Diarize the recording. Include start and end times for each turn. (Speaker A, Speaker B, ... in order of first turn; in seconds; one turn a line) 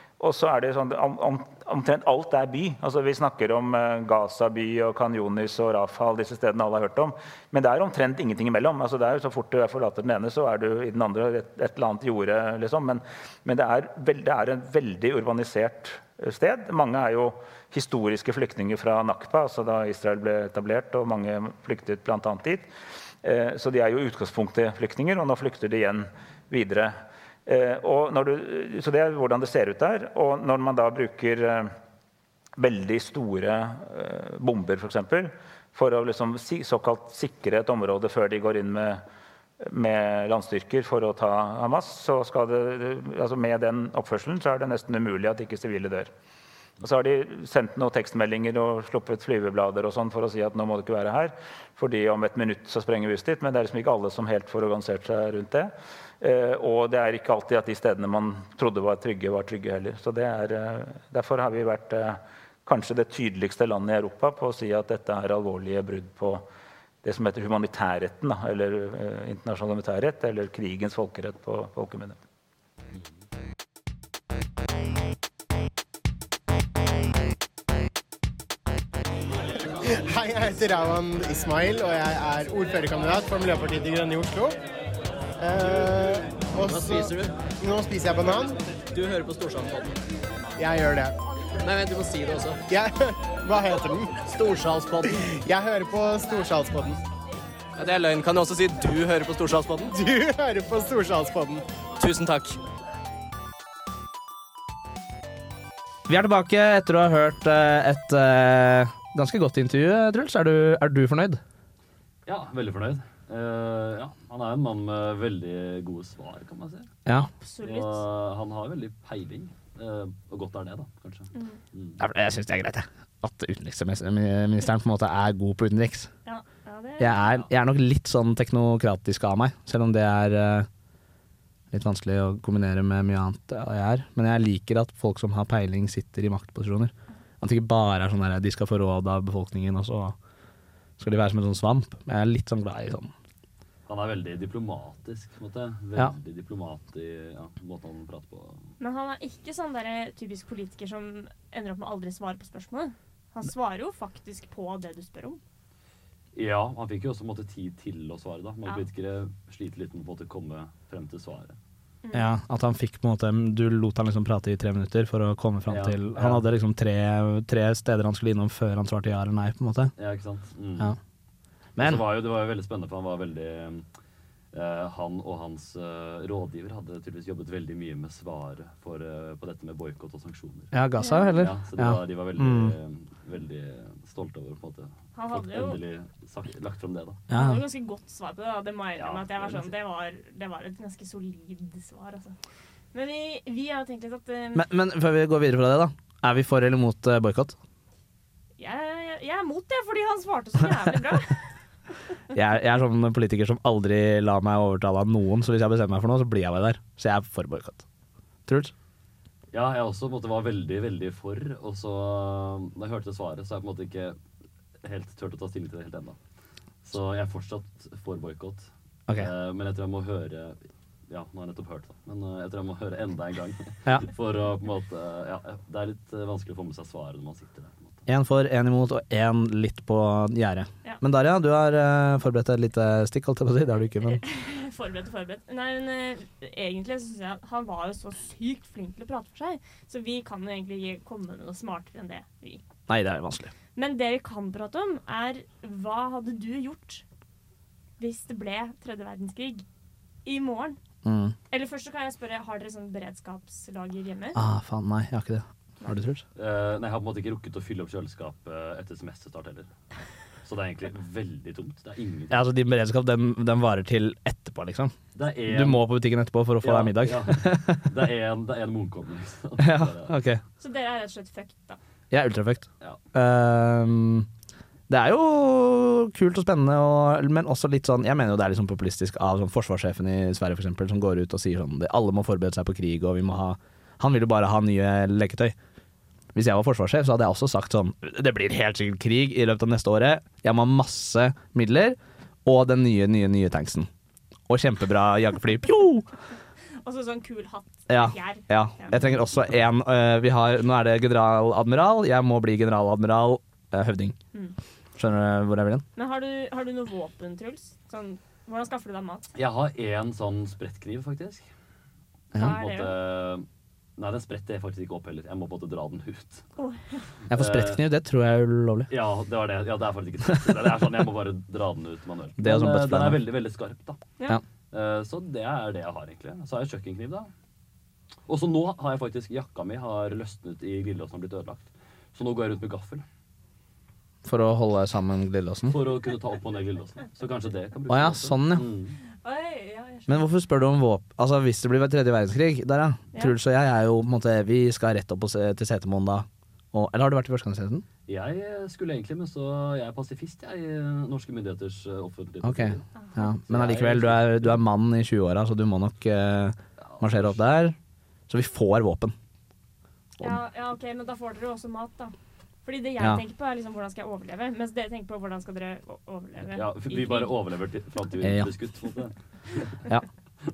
Speaker A: 0.2-22.7
Speaker A: 23.2-31.7
Speaker A: 32.6-39.0
Speaker A: 39.6-46.1
Speaker A: 46.8-66.5
Speaker A: 67.0-72.2
Speaker B: 80.0-84.6
Speaker B: 85.4-88.6
Speaker C: 86.6-87.3
Speaker C: 88.9-90.0
Speaker B: 90.6-91.2
Speaker C: 91.6-92.6
Speaker B: 92.7-94.2
Speaker C: 94.3-95.2
Speaker B: 95.3-97.0
Speaker C: 97.8-99.9
Speaker B: 99.9-101.7
Speaker C: 102.0-102.6
Speaker D: 106.1-111.4
Speaker E: 112.3-116.9
Speaker F: 117.4-118.0
Speaker E: 117.6-122.0
Speaker F: 121.3-121.6
Speaker D: 122.0-126.1
Speaker F: 126.2-127.4
Speaker D: 127.0-130.7
Speaker D: 131.7-140.2
Speaker D: 141.0-143.1
Speaker E: 143.9-148.8
Speaker F: 148.8-155.4
Speaker E: 156.3-161.6
Speaker F: 162.0-162.3
Speaker D: 162.1-169.9
Speaker E: 165.7-166.4
Speaker E: 170.0-170.9
Speaker E: 171.8-173.9
Speaker D: 171.8-172.0
Speaker E: 174.5-180.7
Speaker D: 180.7-182.8
Speaker F: 181.0-181.4
Speaker E: 181.4-187.2
Speaker F: 185.2-185.8
Speaker D: 187.3-187.6
Speaker F: 187.3-192.4
Speaker E: 189.0-189.7
Speaker F: 192.9-194.6
Speaker D: 194.6-197.6
Speaker F: 198.6-201.4
Speaker D: 202.3-207.8
Speaker D: 208.5-208.7
Speaker E: 209.5-214.2
Speaker E: 214.8-216.2
Speaker E: 216.8-228.1
Speaker D: 228.1-234.2
Speaker F: 234.1-242.6
Speaker D: 242.9-243.5
Speaker F: 243.8-247.0
Speaker F: 248.0-249.7
Speaker F: 250.2-250.8
Speaker D: 251.0-251.3
Speaker F: 251.5-254.4
Speaker D: 254.3-256.2
Speaker E: 256.4-259.7
Speaker E: 260.4-262.5
Speaker D: 262.3-267.9
Speaker E: 265.1-265.9
Speaker E: 266.6-270.1
Speaker D: 269.6-270.4
Speaker F: 270.6-271.8
Speaker D: 272.1-274.3
Speaker D: 274.9-285.6
Speaker D: 286.3-293.9
Speaker D: 294.5-296.1
Speaker F: 296.8-299.1
Speaker D: 297.9-304.2
Speaker D: 304.9-305.9
Speaker F: 306.0-309.3
Speaker E: 309.4-311.5
Speaker F: 312.3-313.0
Speaker E: 312.4-313.5
Speaker E: 314.0-316.4
Speaker F: 316.6-317.1
Speaker D: 317.3-318.9
Speaker E: 317.3-317.8
Speaker E: 318.9-324.0
Speaker D: 322.4-323.2
Speaker E: 324.7-327.3
Speaker E: 328.3-333.1
Speaker D: 334.2-335.8
Speaker E: 335.7-339.0
Speaker D: 337.9-338.7
Speaker F: 339.2-340.3
Speaker D: 340.1-347.9
Speaker E: 348.1-352.9
Speaker D: 352.4-357.8
Speaker E: 353.5-354.6
Speaker E: 356.8-357.6
Speaker D: 358.3-359.1
Speaker F: 360.2-367.3
Speaker E: 366.5-369.8
Speaker D: 368.2-368.5